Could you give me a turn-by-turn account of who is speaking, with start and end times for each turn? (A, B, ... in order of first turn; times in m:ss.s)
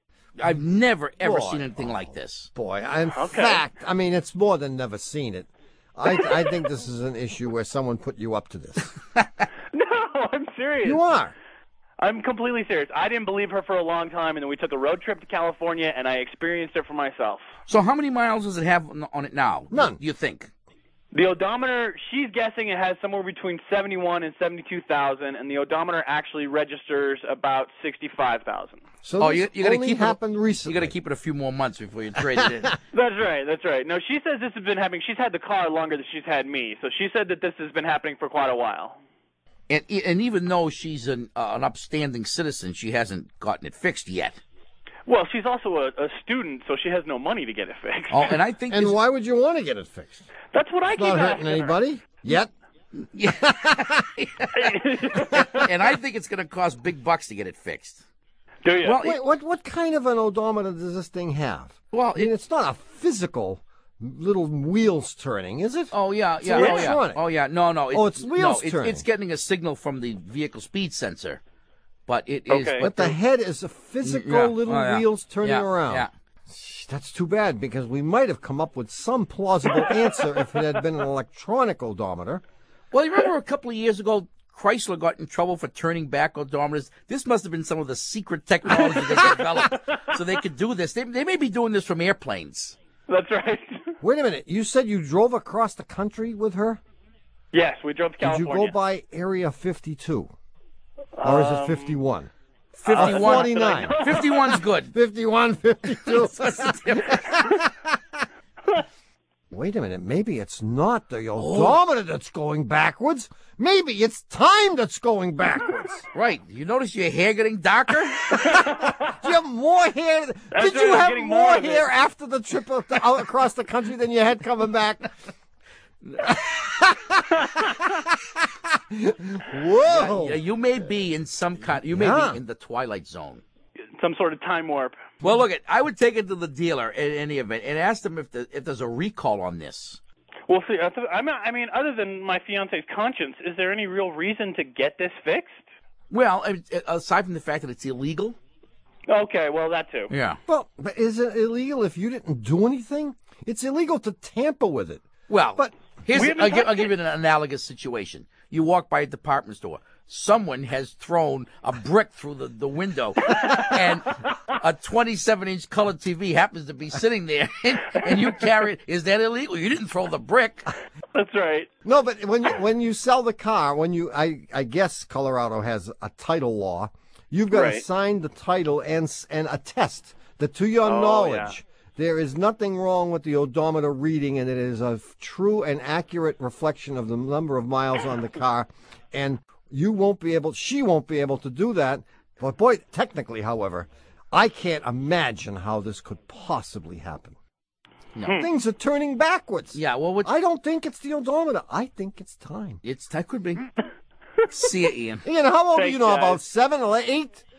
0:00.4-0:02.5 A
0:01.2-0:08.9 B
0:03.1-0:03.6 C
0:09.7-0:11.0 C
0:10.8-0:11.4 B
0:12.0-0:17.5 C
0:17.7-0:20.5 A
0:19.7-0:20.0 B
0:21.1-0:28.8 C
0:29.0-0:30.9 B
0:29.2-0:32.7 A
0:32.9-0:39.0 C
0:39.7-0:44.4 A
0:45.1-0:48.4 C
0:48.1-0:49.0 A
0:48.7-0:50.3 B
0:50.5-0:51.8 C
0:50.9-0:52.5 B
0:53.0-0:58.0 A
0:54.5-0:55.7 C
0:58.6-0:59.0 C
0:58.8-0:59.2 A
0:59.0-1:07.2 B
1:01.9-1:02.3 A
1:05.9-1:11.4 A
1:06.6-1:06.9 C
1:07.9-1:09.0 B
1:12.1-1:13.1 A
1:12.5-1:12.8 C
1:12.8-1:22.4 B
1:14.0-1:16.1 A
1:22.9-1:32.8 A
1:33.1-1:33.9 C
1:34.0-1:36.8 B
1:37.5-1:38.7 C
1:38.2-1:40.3 B
1:41.2-1:42.0 C
1:41.2-1:44.4 B
1:42.8-1:44.9 A
1:42.9-1:44.6 C
1:44.9-1:48.0 B
1:46.1-1:47.4 A
1:49.5-1:56.1 B
1:51.4-1:51.8 A
1:56.1-1:58.6 A
1:58.4-2:05.1 B
2:00.5-2:01.9 C
2:06.2-2:10.4 B
2:09.9-2:13.4 A
2:11.9-2:12.4 B
2:14.0-2:15.0 C
2:15.2-2:20.0 A
2:20.5-2:25.6 C
2:26.1-2:28.4 A
2:29.1-2:30.1 C
2:30.1-2:30.4 A
2:30.5-2:35.7 B
2:35.3-2:50.7 A
2:36.1-2:36.9 C
2:51.1-2:51.7 C
2:51.8-3:17.4 B
2:57.5-2:57.8 C
3:00.8-3:01.5 C
3:18.2-3:18.4 A
3:18.2-3:22.8 B
3:19.7-3:20.3 A
3:22.8-3:23.7 A
3:24.5-3:25.2 A
3:25.2-3:27.4 B
3:25.7-3:26.4 C